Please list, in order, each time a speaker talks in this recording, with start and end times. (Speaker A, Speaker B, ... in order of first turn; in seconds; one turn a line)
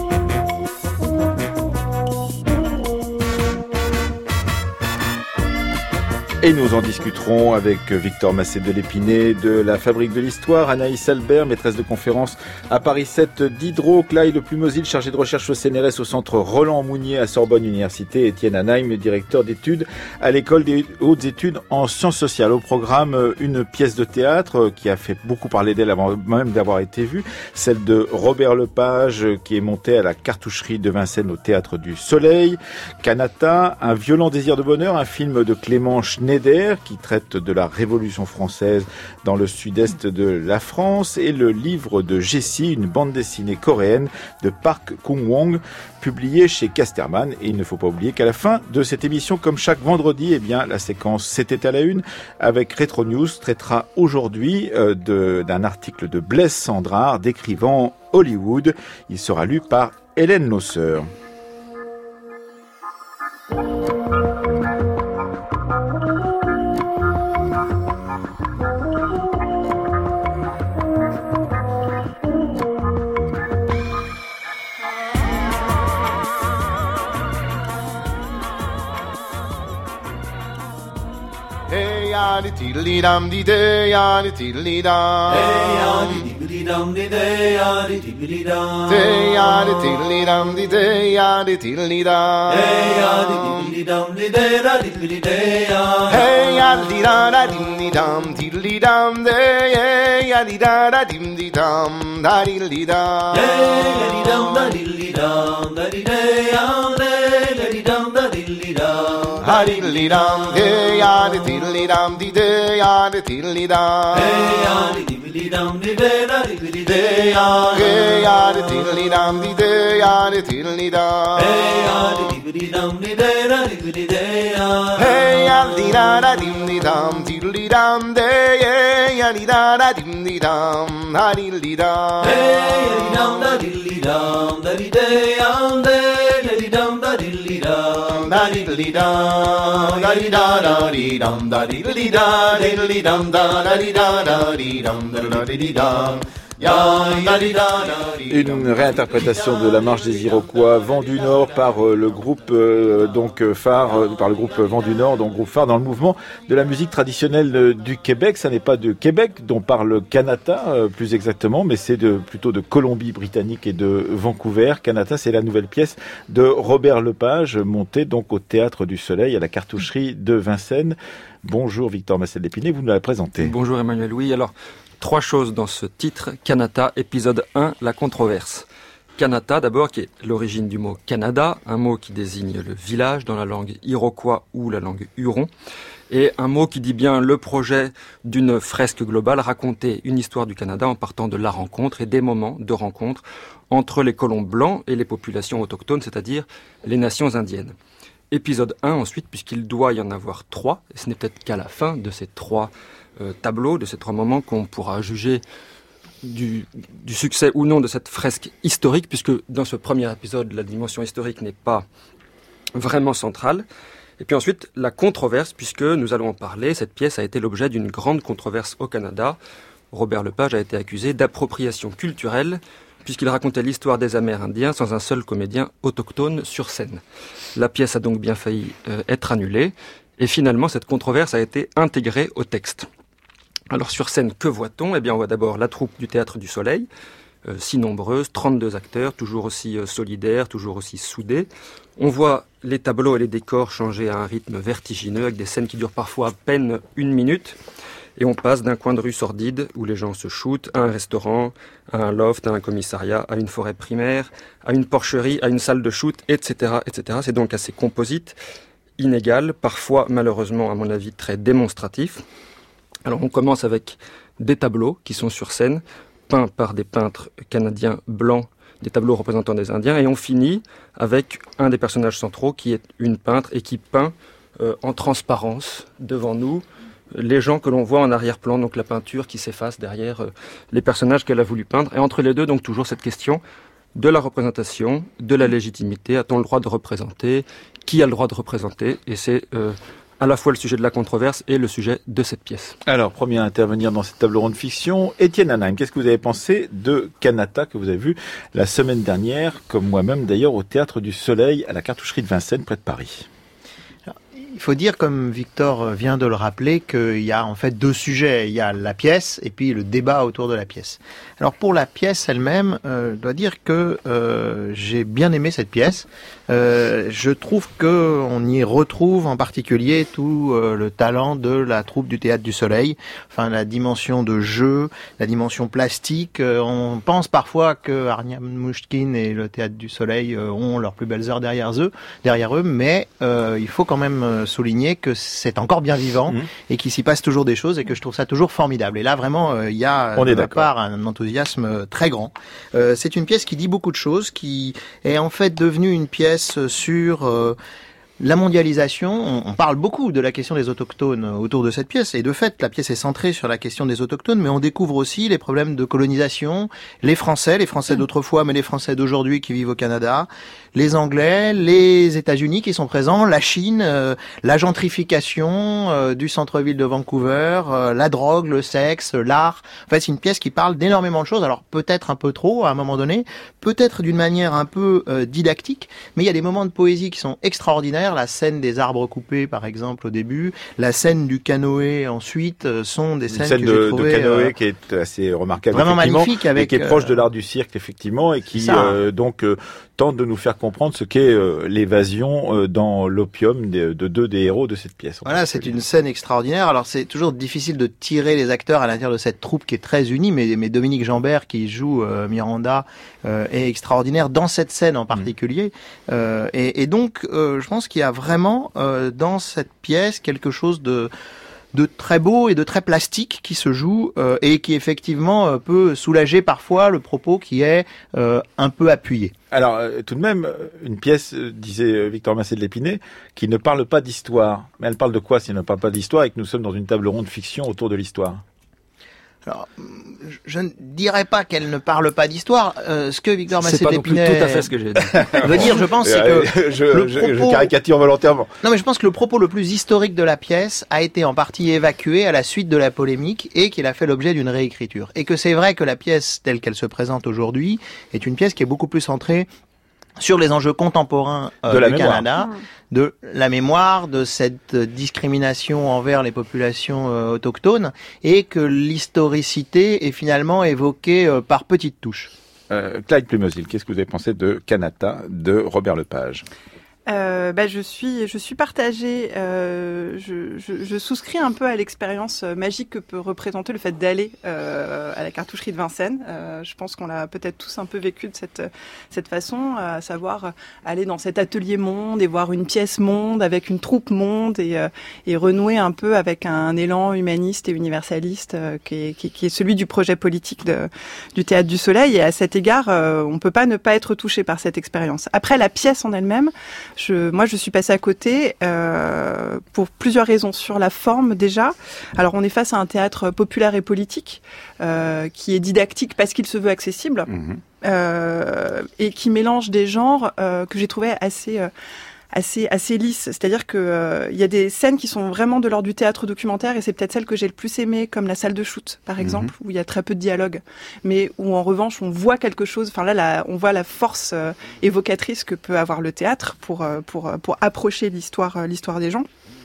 Speaker A: 6.4-61.1
Speaker B: 81.7-86.3
Speaker C: 85.3-89.3
Speaker B: 88.9-93.7
Speaker C: 92.5-96.3
Speaker B: 96.1-104.4
Speaker C: 103.3-111.4
Speaker B: 109.4-114.9
Speaker C: 114.1-118.7
Speaker B: 116.9-117.1
Speaker B: 117.7-122.3
Speaker C: 121.4-126.0
Speaker B: 125.0-133.4
Speaker C: 132.2-138.6
Speaker B: 137.9-148.5
Speaker C: 140.1-140.7
Speaker C: 146.6-148.1
Speaker A: 148.3-173.5
Speaker D: 173.4-178.7
Speaker D: 179.2-185.5
Speaker D: 186.1-197.7
Speaker D: 198.3-205.4
Speaker D: 206.2-211.8
Speaker D: 212.8-213.7
Speaker D: 214.2-219.4
Speaker D: 219.9-227.0
Speaker D: 227.6-232.9
Speaker D: 233.7-236.9
Speaker D: 237.4-241.5
Speaker D: 242.0-247.6
Speaker D: 248.2-258.4
Speaker D: 259.0-262.2
Speaker D: 263.1-283.4
Speaker D: 283.9-292.8
Speaker A: 292.9-303.3
Speaker E: 304.1-347.6
Speaker A: 340.2-340.7
Speaker E: 348.2-384.5
Speaker A: 383.3-395.7
Speaker E: 385.7-387.1
Speaker E: 388.6-389.0
Speaker E: 395.3-411.1
Speaker E: 411.7-419.4
Speaker A: 419.5-428.4
Speaker E: 429.5-434.7
Speaker D: 433.6-435.7
Speaker A: 435.1-438.5
Speaker E: 435.4-437.7
Speaker E: 438.6-449.5
Speaker E: 450.2-462.3
Speaker A: 451.7-452.3
Speaker A: 462.7-466.4
Speaker F: 467.1-507.3
Speaker A: 507.3-507.6
Speaker F: 507.8-511.7
Speaker F: 512.3-529.3
Speaker A: 519.2-519.5